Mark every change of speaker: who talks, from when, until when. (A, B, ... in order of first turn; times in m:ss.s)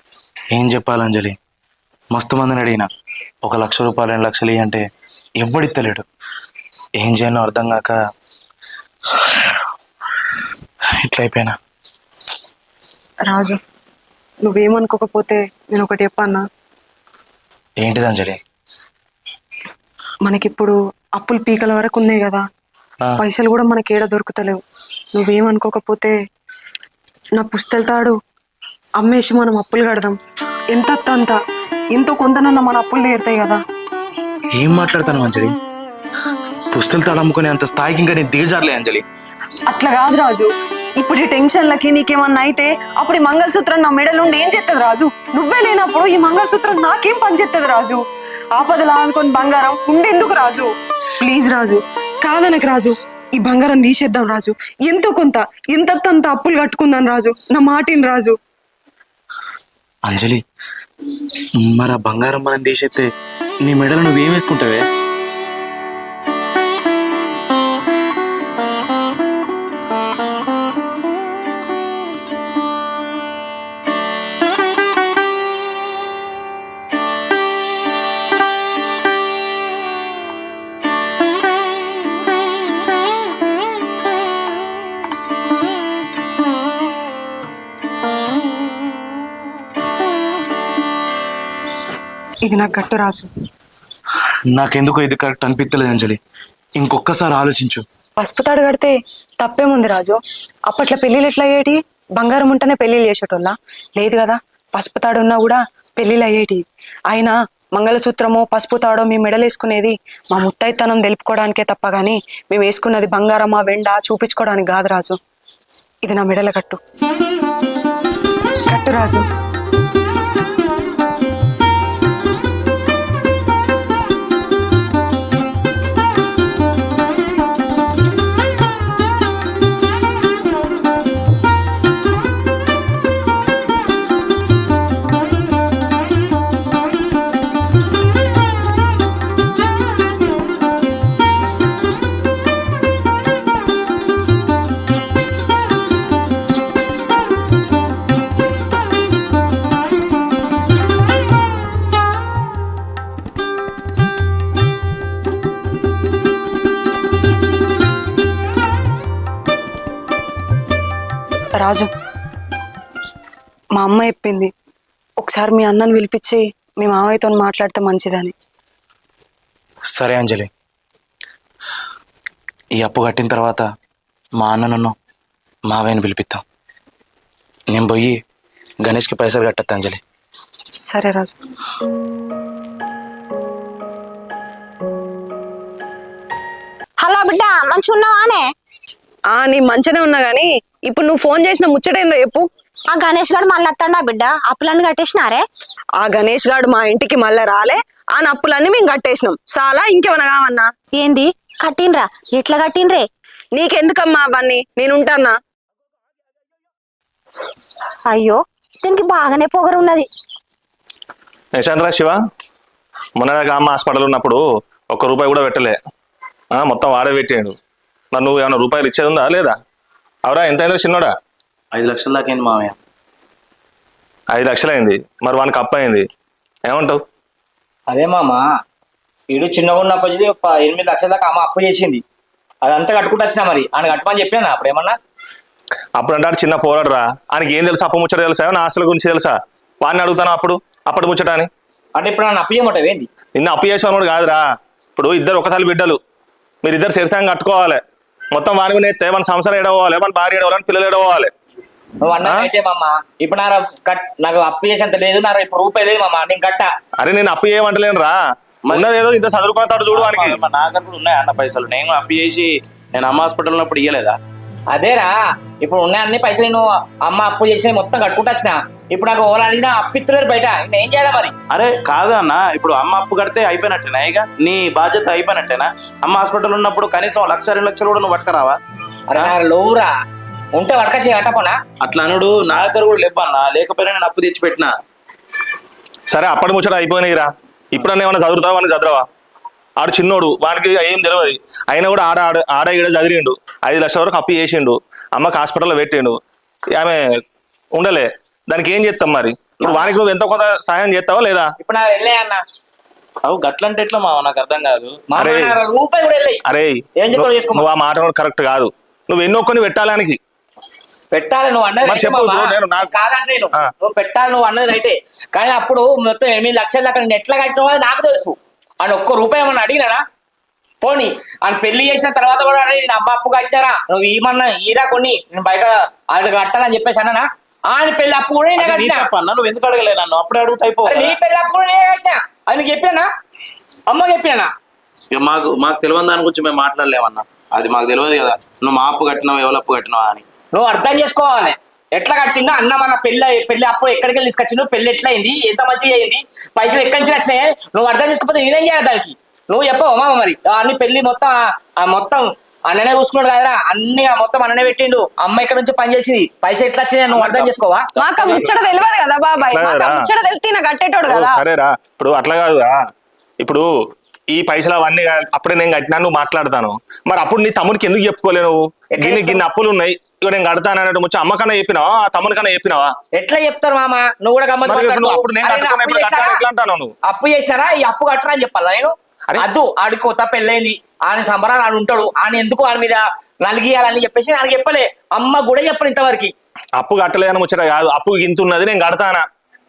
0:00.5-0:01.4 A
0:02.1-0:02.9 A
0:03.4-0:04.9 A
0:05.4-0:06.1 A
0:07.0-0:08.0 A
0:09.1-0:09.6 A
0:11.0-0:11.6 A
0:13.3-0:13.6 B
0:14.4-0:16.4 B
0:17.8-0:18.4 A
0:20.2-0:22.5 B
0:23.2-0:24.6 B
0:25.1-0:26.2 B
0:27.4-0:28.2 B
0:29.0-0:30.2 B
0:30.7-0:31.4 B
0:31.9-0:33.6 B
0:34.6-0:35.6 A
0:36.7-0:39.0 A
0:39.7-0:58.4 B
1:00.0-1:00.4 A
1:01.6-1:03.1 A
1:03.6-1:04.8 A
1:32.4-1:33.3 B
1:34.5-1:36.2 A
1:36.8-1:37.9 A
1:38.2-1:55.2 B
1:56.0-1:56.8 B
1:58.7-1:59.3 B
2:41.6-2:41.9 B
2:43.8-2:44.5 B
2:45.2-2:48.3 B
2:49.9-2:50.5 A
2:52.8-2:53.6 A
2:54.4-2:55.0 A
2:55.7-2:56.4 A
2:57.7-2:58.2 A
2:58.8-3:00.0 A
3:00.8-3:01.4 B
3:07.0-3:08.5 C
3:09.3-3:12.5 B
3:12.9-3:15.4 C
3:16.0-3:20.7 B
3:21.0-3:23.1 C
3:23.6-3:25.4 B
3:28.1-3:30.1 C
3:31.6-3:32.2 D
3:33.2-3:35.8 D
3:36.5-3:37.6 D
3:38.1-3:39.6 D
3:40.3-3:41.1 D
3:41.7-3:42.8 A
3:44.3-3:46.0 D
3:46.7-3:47.0 D
3:47.9-3:48.5 E
3:49.3-3:52.0 E
3:52.6-3:55.0 E
3:56.0-4:01.5 D
4:02.0-4:03.1 E
4:03.4-4:04.4 D
4:05.0-4:06.0 D
4:06.6-4:07.8 D
4:08.3-4:11.3 D
4:12.0-4:16.7 E
4:12.2-4:12.5 D
4:17.0-4:18.2 D
4:18.7-4:20.4 D
4:19.9-4:24.2 A
4:24.7-4:31.3 E
4:31.5-4:38.6 A
4:39.1-4:39.9 E
4:40.6-4:41.6 E
4:41.8-4:44.7 A
4:46.1-4:49.0 D
4:49.8-4:56.2 D
4:56.8-4:57.2 D
4:57.8-5:01.5 D
4:59.7-4:59.9 A
5:01.6-5:02.4 E
5:03.2-5:05.0 A
5:05.1-5:06.4 E
5:05.2-5:05.6 D
5:06.5-5:10.2 D
5:07.0-5:07.7 E
5:11.1-5:20.0 E
5:11.8-5:12.9 D
5:20.8-5:29.1 E
5:28.6-5:31.2 A
5:30.8-5:33.1 E
5:33.9-5:34.5 E
5:35.1-5:40.2 A
5:40.5-5:57.9 E
5:57.1-5:57.5 A
5:58.0-6:01.4 B
5:59.5-6:00.0 D
6:01.1-6:02.8 D
6:03.4-6:03.7 D
6:04.3-6:12.9 D
6:09.0-6:09.4 E
6:13.1-6:16.4 E
6:14.6-6:16.9 D
6:17.1-6:26.3 E
6:26.8-6:29.2 D